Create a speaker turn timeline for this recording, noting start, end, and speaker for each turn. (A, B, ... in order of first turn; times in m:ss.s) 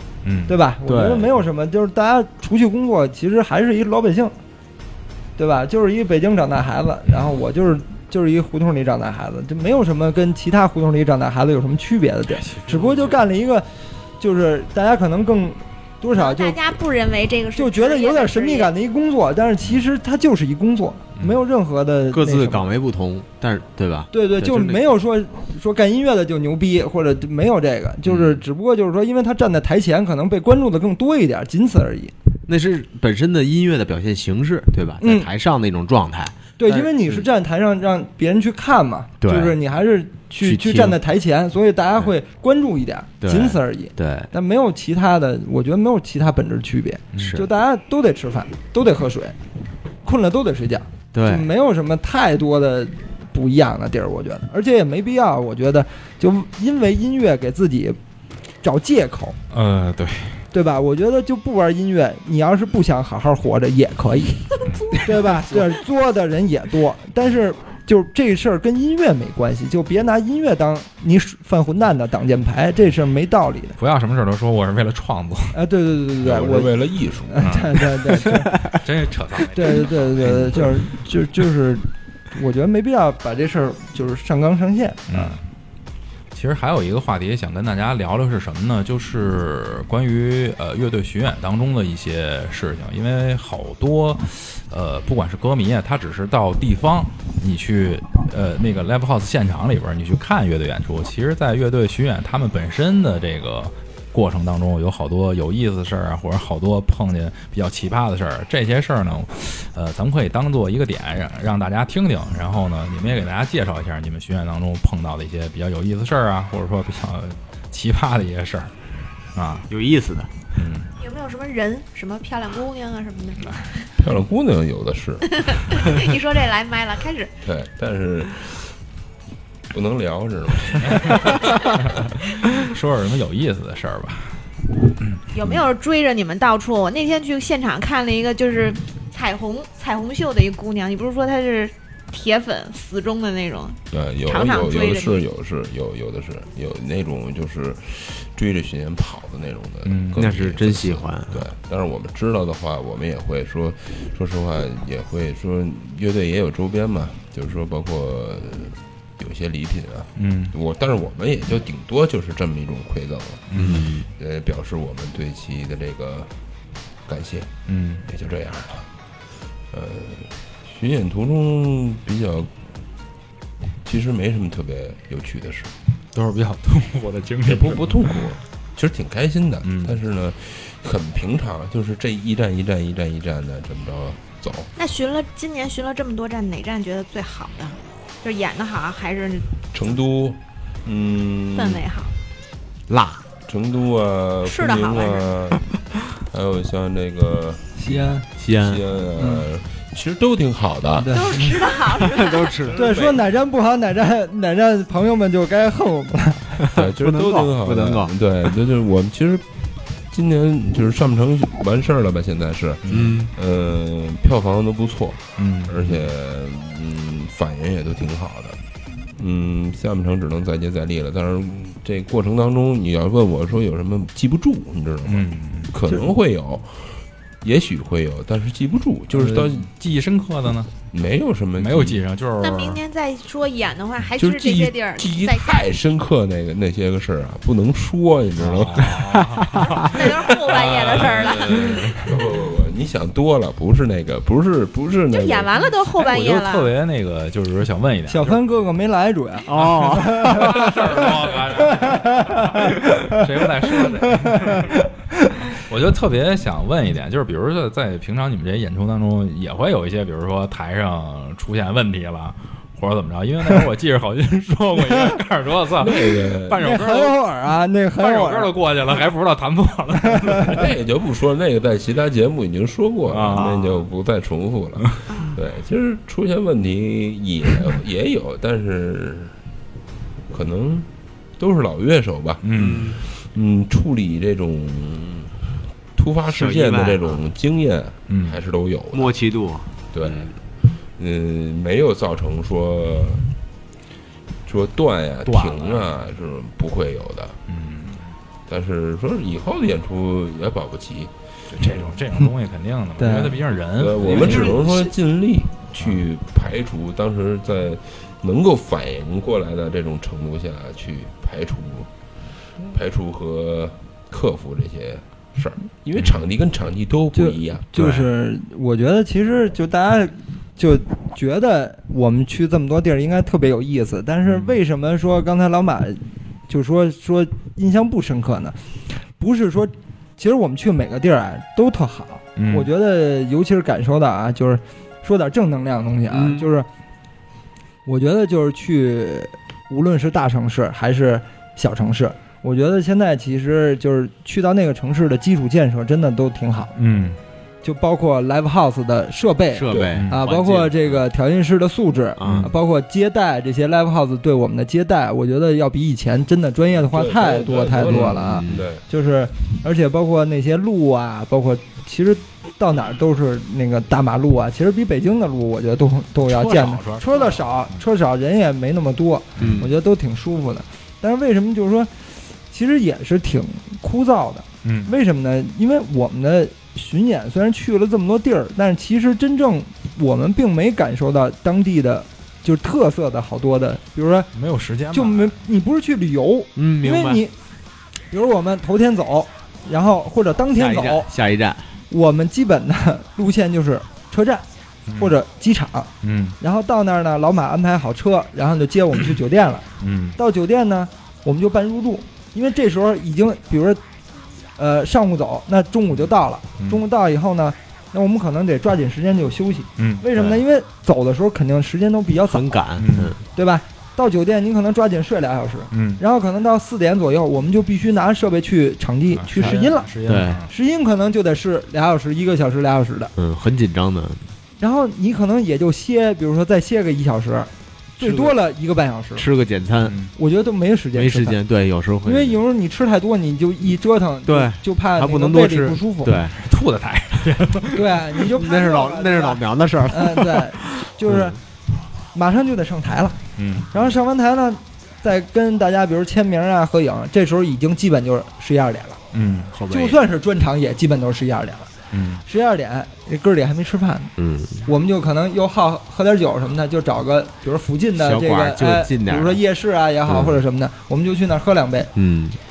0:00.2-0:00.6 A
0:00.5-0:04.3 B
0:00.8-0:01.3 C
0:05.4-0:13.7 B
0:12.3-0:13.2 A
0:14.2-0:16.6 B
0:16.1-0:18.7 D
0:17.5-0:22.7 B
0:22.1-0:24.8 C
0:24.1-0:32.1 B
0:28.0-0:28.4 C
0:32.5-0:37.2 C
0:35.0-0:35.3 B
0:36.6-0:49.4 B
0:39.2-0:39.6 C
0:40.4-0:41.0 C
0:43.2-0:44.3 C
0:47.1-0:47.4 A
0:47.2-0:47.5 C
0:50.0-0:58.0 B
0:51.1-0:51.5 C
0:58.6-0:59.4 B
0:59.5-1:00.4 A
1:00.5-1:13.8 B
1:04.6-1:05.0 A
1:13.8-1:15.5 A
1:15.5-1:18.6 B
1:16.2-1:17.6 E
1:17.4-1:17.8 A
1:18.6-1:20.5 A
1:19.5-1:25.3 B
1:20.2-1:20.7 E
1:25.1-1:25.4 A
1:26.3-1:58.7 A
1:59.3-1:59.7 A
1:59.7-2:00.3 C
2:00.6-2:00.9 A
2:01.0-2:03.9 D
2:04.0-2:05.6 E
2:05.3-2:07.3 D
2:07.4-2:08.7 E
2:09.7-2:11.4 E
2:10.8-2:11.9 A
2:12.4-2:14.4 A
2:15.3-2:25.2 D
2:23.9-2:43.4 E
2:29.8-2:30.2 A
2:30.2-2:31.5 C
2:40.2-2:40.5 A
2:43.5-2:43.9 A
2:43.5-2:44.1 C
2:44.0-2:46.3 E
2:47.0-2:47.5 E
2:47.7-2:48.0 A
2:48.1-2:48.9 E
2:49.7-2:52.6 E
2:53.8-2:55.7 E
2:56.1-2:58.2 A
2:57.4-3:04.7 E
2:59.6-3:00.0 A
3:04.8-3:09.5 D
3:09.7-3:11.8 E
3:11.5-3:12.1 D
3:12.9-3:13.2 C
3:13.5-3:15.6 E
3:14.4-3:15.3 D
3:16.2-3:17.8 E
3:17.8-3:18.3 B
3:18.4-3:18.8 C
3:18.5-3:21.3 E
3:19.2-3:19.4 B
3:21.0-3:21.6 B
3:21.1-3:22.6 D
3:22.0-3:22.8 C
3:22.6-3:23.2 E
3:22.7-3:26.6 B
3:26.7-3:29.5 E
3:26.7-3:28.1 C
3:30.1-3:38.6 E
3:32.8-3:33.2 A
3:32.9-3:33.3 C
3:35.4-3:35.8 A
3:39.1-3:49.7 E
3:45.0-3:45.7 A
3:49.1-3:50.7 A
3:50.9-3:52.0 E
3:51.6-3:52.8 A
3:52.4-3:55.7 D
3:54.2-3:59.0 E
3:58.4-4:00.0 A
3:59.4-3:59.7 C
3:59.8-4:01.7 D
4:00.0-4:05.5 E
4:00.6-4:01.6 A
4:05.1-4:06.7 D
4:06.0-4:08.4 A
4:08.1-4:13.1 B
4:09.5-4:10.5 C
4:09.6-4:14.8 A
4:13.7-4:14.7 B
4:15.6-4:27.2 A
4:25.8-4:26.7 E
4:26.6-4:28.5 B
4:28.0-4:30.6 A
4:30.2-4:30.6 B
4:30.4-4:39.3 E
4:33.1-4:33.6 A
4:40.3-4:42.4 E
4:42.4-4:42.9 A
4:42.5-4:43.0 C
4:42.9-4:45.4 E
4:45.9-4:49.2 E
4:46.3-4:47.2 C
4:48.1-4:48.4 A
4:48.9-4:50.3 C
4:49.9-4:50.3 E
4:51.0-4:53.3 E
4:54.4-4:57.4 E
4:55.3-4:55.6 C
4:57.5-4:58.1 A
4:58.5-5:01.9 E
5:01.5-5:04.6 A
5:03.0-5:03.4 B
5:03.8-5:11.9 E
5:04.2-5:04.6 C
5:12.6-5:17.7 E
5:17.1-5:28.6 B
5:24.2-5:24.5 A
5:29.2-5:36.7 B
5:32.4-5:32.7 A
5:36.1-5:36.5 C
5:37.8-5:46.7 B
5:46.8-5:47.2 A
5:47.6-6:11.9 B
5:49.5-5:51.0 C
5:49.7-5:50.0 E
5:49.9-5:50.2 A
5:52.2-5:52.5 C
5:52.2-5:52.5 A
5:56.9-5:58.8 E
5:57.8-5:58.7 C
6:06.2-6:07.8 A
6:09.4-6:09.8 C
6:12.5-6:24.3 B
6:14.6-6:14.9 A
6:24.3-6:25.4 A
6:24.9-6:27.3 B
6:26.6-6:27.2 C
6:28.1-6:31.1 B
6:30.5-6:31.8 C
6:31.9-6:34.4 B
6:34.9-6:35.1 A
6:35.0-6:39.6 B
6:36.0-6:36.4 A
6:39.8-6:40.2 A
6:40.2-6:43.8 B
6:44.6-6:52.6 B
6:49.8-6:50.0 A
6:50.1-6:50.4 C
6:52.2-6:53.2 C
6:52.8-6:53.2 A
6:53.3-7:03.1 B
6:55.7-6:56.0 A
6:59.1-7:00.5 A
6:59.4-7:00.4 C
7:03.2-7:04.3 C
7:04.6-7:09.3 B
7:08.0-7:08.4 C
7:09.2-7:10.1 C
7:09.8-7:10.1 A
7:10.2-7:11.4 B
7:10.9-7:12.4 C
7:12.0-7:16.2 B
7:14.2-7:16.4 C
7:16.4-7:17.9 A
7:17.7-7:21.4 B
7:18.3-7:21.4 C
7:22.1-7:23.2 B
7:23.4-7:23.7 A
7:23.7-7:29.0 B
7:29.1-7:29.5 A
7:29.5-7:30.0 C
7:29.7-7:31.7 B
7:31.9-7:32.2 A
7:32.2-7:34.1 B
7:34.2-7:34.7 C
7:34.6-7:41.9 B
7:37.9-7:39.4 C
7:40.0-7:40.4 C
7:41.9-7:42.4 C